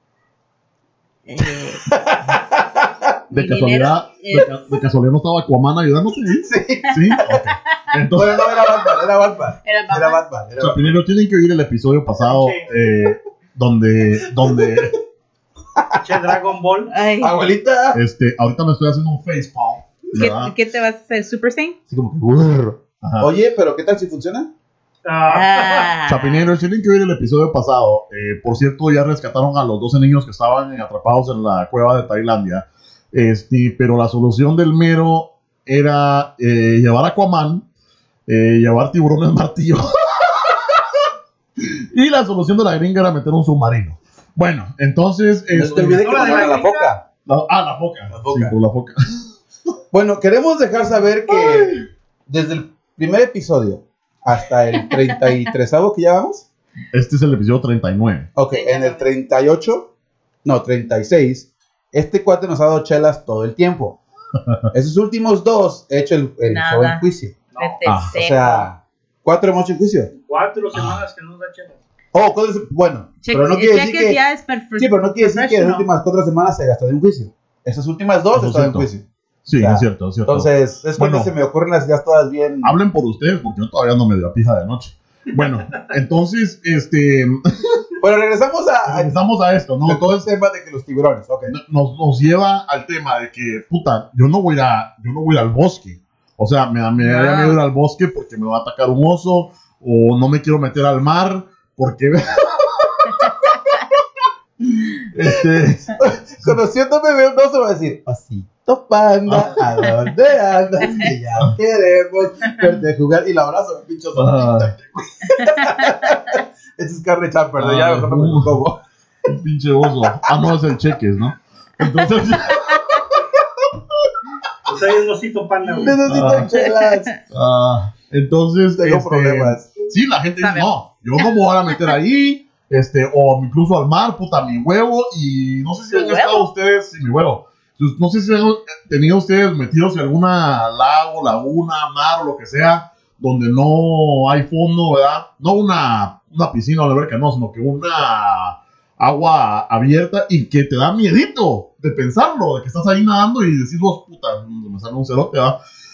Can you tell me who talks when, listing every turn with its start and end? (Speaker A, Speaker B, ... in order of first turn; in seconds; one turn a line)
Speaker A: 1.3-1.9
Speaker B: 1.9-3.0
Speaker C: 3.3-8.4
Speaker A: 3.3-4.5
Speaker B: 6.4-6.9
Speaker B: 8.1-11.0
Speaker A: 9.6-10.2
Speaker C: 10.6-14.9
Speaker D: 12.2-12.7
Speaker B: 14.4-14.8
Speaker D: 15.9-16.9
Speaker A: 16.9-17.4
Speaker B: 17.2-18.0
Speaker C: 17.9-20.5
Speaker A: 20.2-21.8
Speaker B: 21.9-24.5
Speaker C: 23.0-23.3
Speaker D: 25.0-25.9
Speaker A: 25.3-26.5
Speaker C: 26.0-37.6
Speaker C: 38.3-40.9
Speaker C: 41.6-46.0
Speaker B: 45.5-47.0
Speaker D: 46.0-46.9
Speaker C: 47.2-49.3
Speaker B: 48.1-48.5
Speaker B: 49.9-56.5
Speaker C: 51.3-51.7
Speaker C: 56.9-58.3
Speaker B: 58.4-59.9
Speaker A: 58.5-59.1
Speaker B: 60.4-64.0
Speaker B: 64.7-67.3
Speaker A: 66.5-67.0
Speaker D: 67.5-67.8
Speaker A: 67.5-68.7
Speaker C: 67.8-68.1
Speaker B: 68.1-70.1
Speaker D: 70.2-71.8
Speaker C: 70.7-71.0
Speaker B: 72.1-74.2
Speaker A: 73.2-75.8
Speaker B: 74.8-82.7
Speaker C: 78.3-78.9
Speaker C: 79.4-81.3
Speaker C: 82.6-87.8
Speaker B: 88.0-89.1
Speaker C: 88.8-90.2
Speaker B: 89.8-91.5
Speaker C: 91.5-103.4
Speaker A: 97.0-97.6
Speaker C: 105.0-106.6
Speaker B: 106.0-118.8
Speaker C: 109.3-109.8
Speaker C: 114.2-114.7
Speaker A: 115.4-115.9
Speaker C: 117.6-118.6
Speaker C: 119.2-123.2
Speaker D: 124.7-126.0
Speaker B: 125.8-127.2
Speaker C: 126.0-126.5
Speaker C: 127.3-155.6
Speaker B: 128.8-129.7
Speaker A: 130.4-130.7
Speaker A: 135.9-136.5